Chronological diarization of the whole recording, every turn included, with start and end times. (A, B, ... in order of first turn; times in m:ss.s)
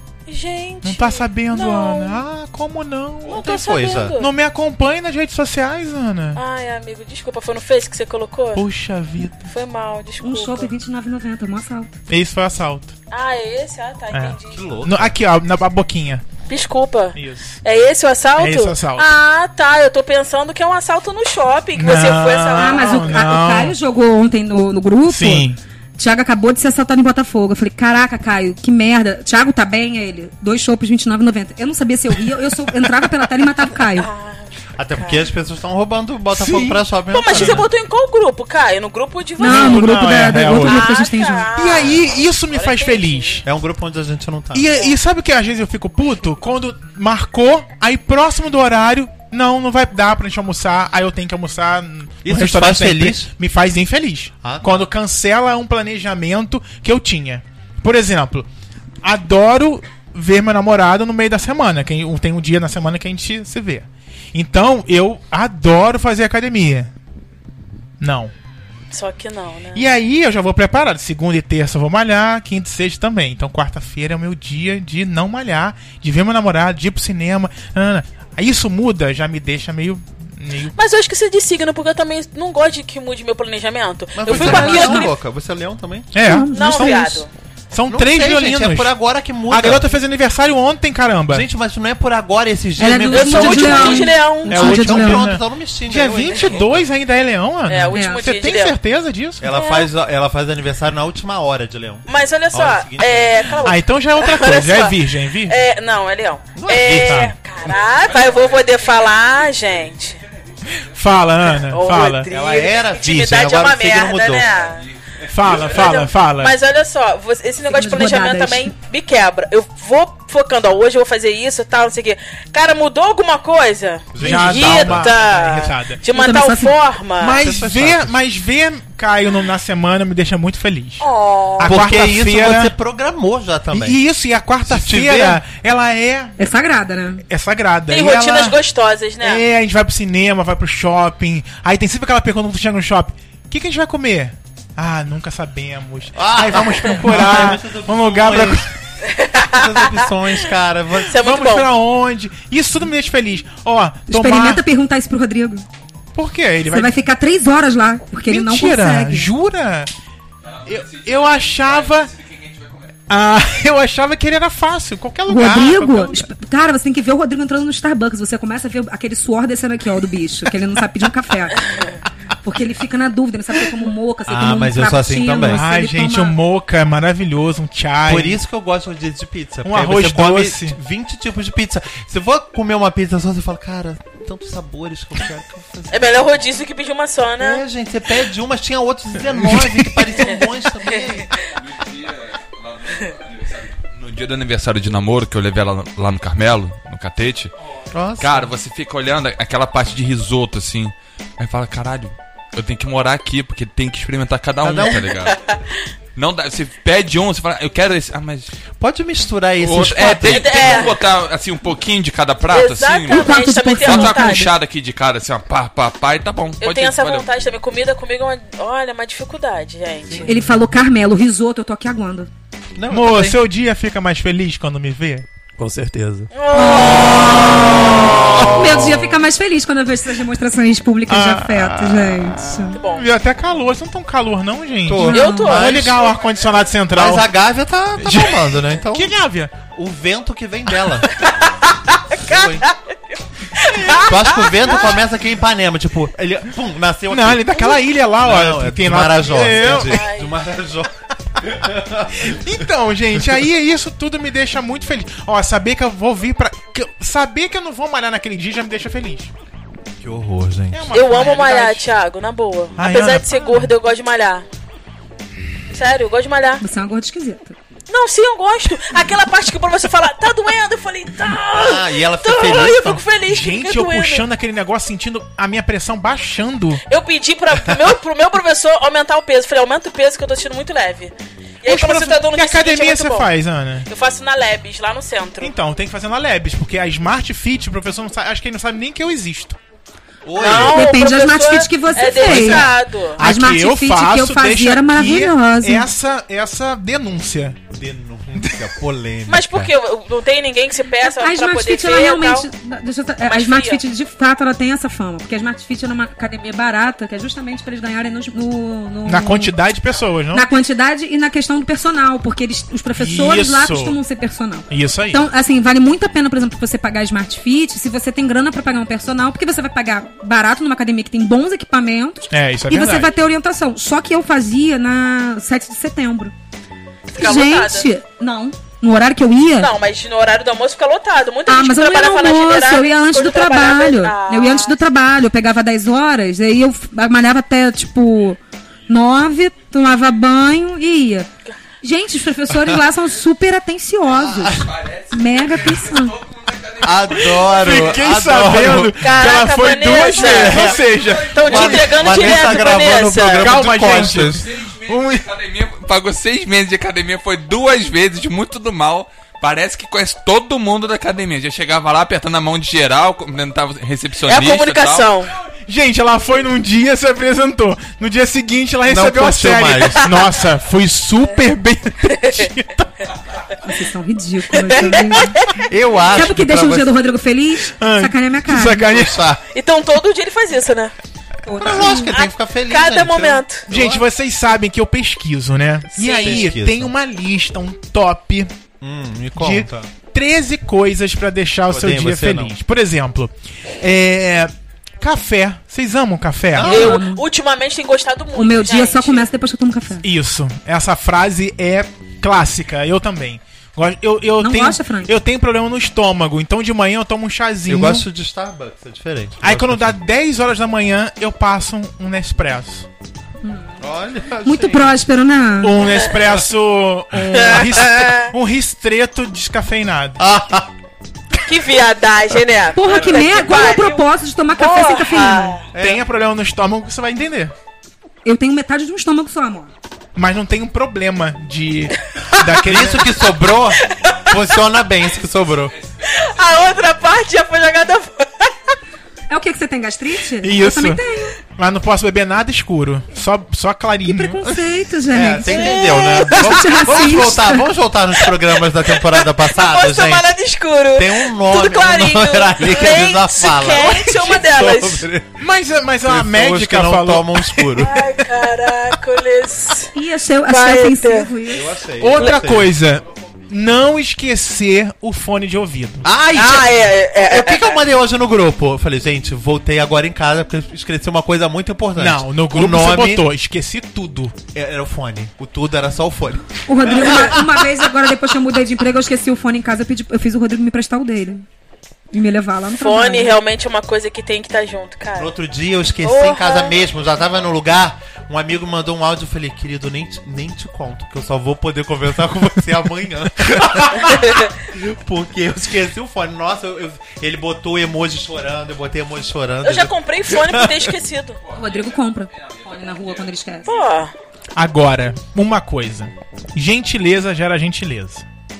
0:00.3-0:02.2 A
0:00.8-0:03.4 B
0:03.2-0:04.2 C
0:03.3-0:04.3 A
0:04.2-0:06.4 B
0:06.4-0:08.6 A
0:08.6-0:09.5 B
0:09.5-0:10.7 A
0:10.2-0:12.0 D
0:12.1-0:12.9 B
0:13.1-0:14.6 A
0:14.1-0:16.2 B
0:14.5-0:15.2 C
0:16.5-0:23.3 A
0:17.2-0:17.6 B
0:18.4-0:19.1 B
0:21.8-0:23.8 B
0:22.6-0:34.1 D
0:25.1-0:25.6 B
0:33.9-0:35.3 A
0:34.8-0:37.7 C
0:36.3-0:37.6 B
0:37.1-0:43.4 A
0:39.4-0:41.5 D
0:39.4-0:40.9 B
0:41.6-0:43.4 B
0:43.4-0:44.8 C
0:44.5-0:58.5 B
0:52.2-0:53.3 C
0:54.4-0:54.9 C
0:59.0-1:06.9 B
1:08.0-1:08.3 B
1:08.9-1:09.9 A
1:09.7-1:20.7 B
1:20.8-1:25.1 A
1:24.2-1:26.2 C
1:24.3-1:25.0 B
1:24.4-1:25.1 D
1:26.1-1:28.9 B
1:26.2-1:27.0 D
1:26.5-1:27.3 A
1:27.9-1:29.9 C
1:29.5-1:31.5 B
1:31.3-1:36.9 C
1:32.8-1:35.3 D
1:33.1-1:34.6 A
1:33.3-1:39.5 B
1:37.7-1:38.8 A
1:37.9-1:38.2 D
1:39.4-1:43.7 C
1:39.5-1:39.9 A
1:42.1-1:50.2 A
1:43.6-1:45.6 B
1:46.6-1:47.3 C
1:46.9-1:47.3 B
1:50.8-1:52.3 B
1:51.6-1:54.9 A
1:52.3-1:54.5 C
1:55.3-1:56.6 B
1:55.4-2:07.4 A
1:57.7-1:58.7 D
2:04.1-2:05.1 C
2:04.2-2:06.0 B
2:06.1-2:06.8 D
2:07.2-2:11.1 B
2:07.4-2:08.2 C
2:11.0-2:11.8 A
2:11.6-2:12.7 B
2:11.6-2:14.0 C
2:13.7-2:16.4 B
2:14.6-2:15.4 C
2:16.4-2:17.2 D
2:17.3-2:18.6 B
2:17.9-2:19.4 A
2:19.2-2:28.7 B
2:26.2-2:28.7 C
2:29.0-2:30.1 A
2:29.4-2:31.2 C
2:31.1-2:31.7 A
2:31.2-2:34.6 B
2:34.1-2:35.7 D
2:36.2-2:37.0 B
2:36.7-2:39.3 D
2:38.3-2:39.9 B
2:40.6-2:42.9 E
2:40.7-2:42.1 B
2:43.1-2:46.3 B
2:45.3-2:51.9 D
2:52.4-2:56.4 D
2:54.3-2:55.7 C
2:55.4-2:58.4 B
2:58.0-3:06.3 C
2:59.6-3:00.8 B
3:05.9-3:07.6 A
3:07.4-3:11.3 C
3:09.4-3:10.1 B
3:11.6-3:17.5 E
3:17.9-3:18.5 C
3:18.2-3:25.4 E
3:24.6-3:25.1 C
3:26.2-3:28.5 E
3:28.8-3:31.0 C
3:29.6-3:37.3 E
3:30.2-3:31.0 A
3:32.5-3:34.5 A
3:33.1-3:34.5 D
3:36.6-3:40.3 A
3:40.1-3:40.5 C
3:40.2-3:42.3 D
3:42.8-3:43.4 C
3:42.9-3:45.3 B
3:45.6-3:46.3 C
3:46.3-3:48.5 A
3:46.5-3:52.8 D
3:47.9-3:49.1 C
3:51.1-3:57.3 B
3:52.8-3:53.1 A
3:54.8-3:56.2 C
3:55.0-3:55.5 D
3:55.1-3:55.8 A
3:56.9-3:59.1 C
3:58.0-3:59.6 B
3:59.7-4:01.3 C
4:01.2-4:02.9 A
4:02.1-4:02.7 C
4:03.6-4:04.9 A
4:03.8-4:04.1 B
4:04.0-4:12.6 C
4:07.1-4:10.0 B
4:09.6-4:10.4 A
4:12.2-4:19.3 B
4:20.0-4:21.0 C
4:20.7-4:21.8 B
4:20.9-4:24.5 A
4:22.8-4:23.7 B
4:25.7-4:26.6 A
4:26.6-4:27.6 D
4:27.9-4:34.3 A
4:31.5-4:33.0 C
4:33.3-4:36.8 B
4:36.9-4:43.3 A
4:41.7-4:43.9 B
4:43.9-4:45.5 A
4:45.4-4:49.6 B
4:50.2-4:50.9 C
4:50.4-4:53.2 A
4:50.6-4:55.9 D
4:52.1-4:57.6 B
4:57.7-4:59.7 C
4:59.3-5:02.5 A
5:01.0-5:09.5 D
5:03.3-5:03.8 A
5:09.0-5:10.5 B
5:10.3-5:26.3 D
5:13.0-5:14.0 B
5:14.7-5:15.2 B
5:22.3-5:23.1 B
5:27.1-5:27.9 A
5:27.2-5:29.7 D
5:29.6-5:34.8 A
5:31.5-5:41.3 D
5:41.8-5:46.2 D
5:44.1-5:44.7 C
5:44.6-5:47.5 E
5:46.8-5:49.1 C
5:47.4-5:52.4 B
5:49.0-5:53.6 A
5:50.1-5:54.5 C
5:51.0-5:52.3 E
5:53.4-5:55.2 B
5:54.4-6:05.1 E
6:04.2-6:05.3 A
6:05.7-6:13.0 B
6:08.9-6:10.2 C
6:12.1-6:12.4 A
6:13.6-6:15.4 D
6:14.6-6:15.6 A
6:15.5-6:17.0 C
6:16.1-6:18.9 D
6:17.8-6:19.3 B
6:18.9-6:19.4 C
6:19.5-6:20.9 A
6:21.4-6:22.1 D
6:21.6-6:24.1 C
6:21.8-6:23.7 A
6:23.7-6:28.5 B
6:25.9-6:26.6 A
6:26.2-6:26.9 C
6:28.8-6:29.9 C
6:29.4-6:36.9 B
6:31.7-6:32.6 C
6:36.5-6:37.0 C
6:36.6-6:37.2 D
6:36.6-6:39.3 A
6:38.4-6:40.1 D
6:40.0-6:48.1 B
6:44.4-6:45.1 D
6:47.7-6:50.0 C
6:49.4-6:52.9 B
6:53.4-6:53.8 D
6:53.8-6:55.0 C
6:54.4-6:55.9 D
6:55.6-7:00.2 B
6:57.3-6:58.3 A
7:00.2-7:00.7 C
7:01.4-7:05.7 A
7:02.7-7:05.6 D
7:05.7-7:06.0 C
7:05.8-7:07.5 B
7:08.2-7:09.7 D
7:10.2-7:13.2 B
7:12.6-7:15.7 C
7:13.8-7:14.6 A
7:16.0-7:18.6 A
7:19.3-7:21.4 D
7:20.4-7:21.0 B
7:21.6-7:24.5 B
7:24.0-7:27.7 D
7:25.1-7:30.3 C
7:25.4-7:26.6 A
7:28.2-7:35.0 A
7:31.0-7:35.4 C
7:35.4-7:37.8 B
7:36.0-7:38.1 C
7:37.8-7:39.9 A
7:39.9-7:41.8 D
7:40.5-7:41.3 A
7:41.5-7:42.7 C
7:42.0-7:46.1 B
7:46.0-7:53.3 C
7:46.3-7:47.8 A
7:52.0-7:54.4 B
7:54.5-7:57.7 C
7:56.7-8:01.4 D
8:02.1-8:03.4 D
8:02.8-8:05.3 A
8:05.2-8:20.9 C
8:06.0-8:06.8 A
8:14.0-8:14.5 A
8:19.6-8:21.4 A
8:21.5-8:23.7 D
8:23.6-8:24.1 A
8:24.6-8:28.2 B